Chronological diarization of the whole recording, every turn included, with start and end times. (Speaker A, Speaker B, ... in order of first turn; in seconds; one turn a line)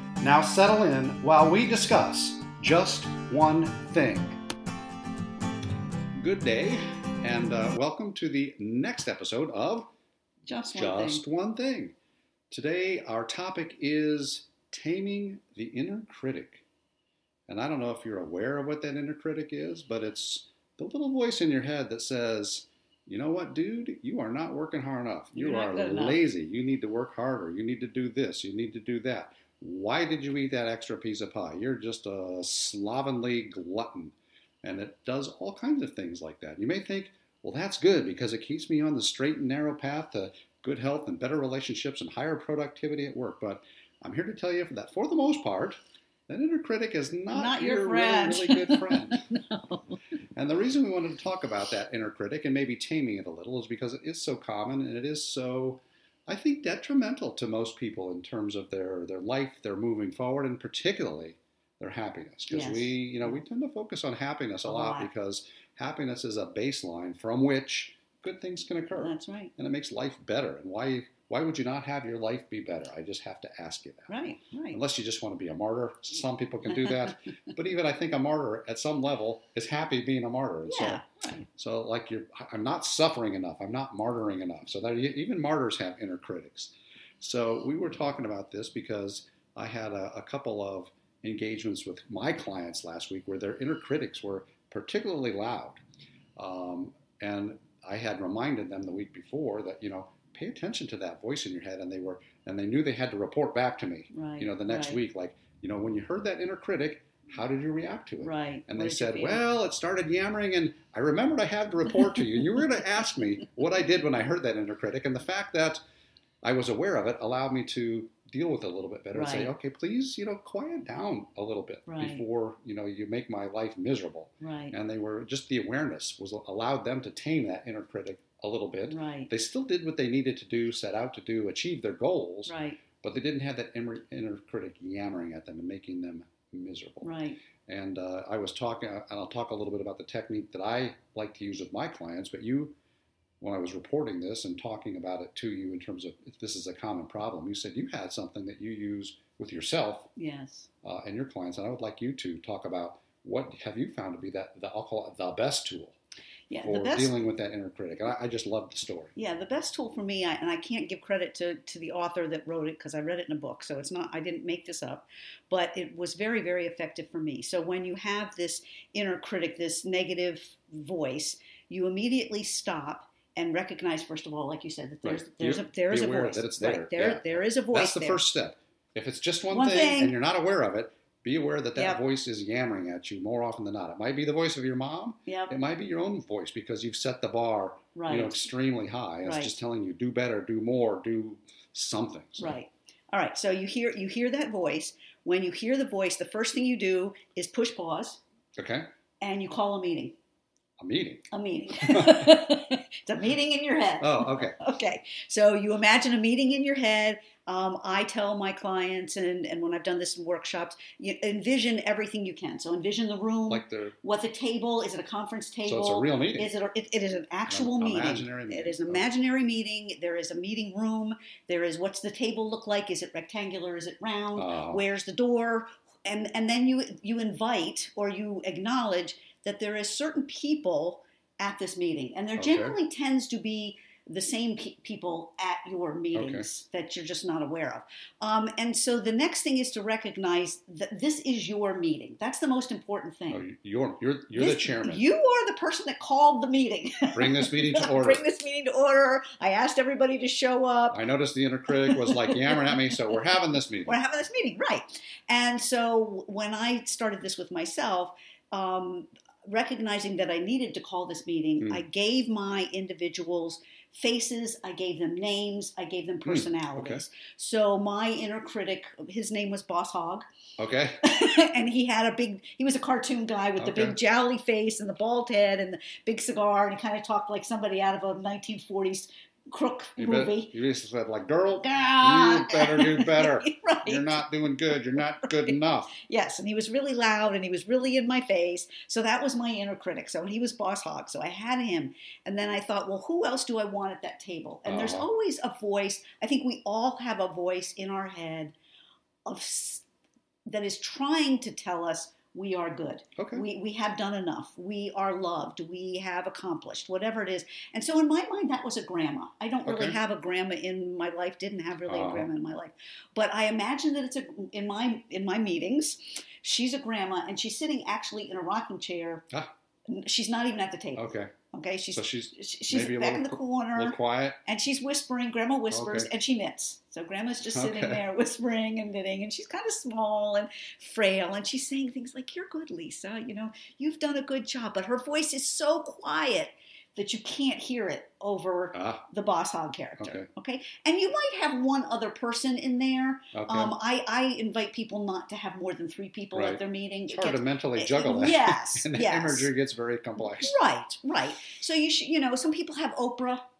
Speaker A: 0.2-4.4
Speaker A: 6.2-9.9
Speaker B: 10.4-11.2
Speaker A: 10.7-11.9
Speaker A: 12.5-16.6
Speaker A: 17.5-49.2
Speaker B: 25.3-26.2
Speaker B: 47.3-49.8
Speaker A: 50.4-81.0
Speaker B: 62.5-63.4
Speaker B: 64.6-65.1
Speaker B: 68.9-69.5
Speaker B: 74.1-74.8
Speaker B: 80.7-81.5
Speaker A: 81.5-95.8
Speaker A: 96.4-115.8
Speaker B: 104.1-105.0
Speaker B: 108.2-109.4
Speaker A: 116.4-137.1
Speaker B: 119.1-119.5
Speaker B: 121.9-122.2
Speaker B: 124.4-124.8
Speaker B: 128.9-129.3
Speaker B: 132.4-132.8
Speaker B: 137.0-137.4
Speaker A: 137.7-142.8
Speaker A: 143.4-150.1
Speaker B: 150.2-150.7
Speaker A: 150.8-156.0
Speaker B: 156.5-157.1
Speaker A: 156.6-159.1
Speaker B: 159.2-178.2
Speaker A: 175.0-192.6
Speaker B: 179.5-180.1
Speaker B: 185.3-185.5
Speaker B: 187.9-188.4
Speaker B: 189.2-189.5
Speaker B: 192.4-198.2
Speaker A: 198.6-198.8
Speaker B: 199.2-200.2
Speaker A: 200.8-201.3
Speaker B: 201.3-243.4
Speaker A: 201.8-202.4
Speaker A: 204.0-204.6
Speaker A: 213.5-214.0
Speaker A: 215.7-216.5
Speaker A: 217.5-219.1
Speaker A: 224.3-224.8
Speaker A: 232.4-232.8
Speaker A: 236.1-236.5
Speaker A: 243.3-245.0
Speaker B: 244.3-251.0
Speaker A: 247.1-248.2
Speaker A: 250.9-254.0
Speaker B: 251.7-252.8
Speaker B: 253.8-270.2
Speaker A: 266.2-267.0
Speaker A: 270.6-271.0
Speaker B: 271.0-280.5
Speaker A: 273.6-274.0
Speaker A: 280.0-285.9
Speaker B: 281.7-298.5
Speaker A: 294.6-295.1
Speaker B: 299.2-299.8
Speaker B: 300.5-319.2
Speaker A: 303.2-303.4
Speaker A: 309.6-310.0
Speaker A: 311.9-312.3
Speaker B: 319.9-349.5
Speaker A: 320.9-321.3
Speaker A: 321.9-324.4
Speaker A: 325.7-326.1
Speaker A: 327.5-328.0
Speaker A: 338.7-339.0
Speaker A: 340.0-340.3
Speaker A: 343.3-343.7
Speaker A: 346.3-350.5
Speaker B: 350.2-353.4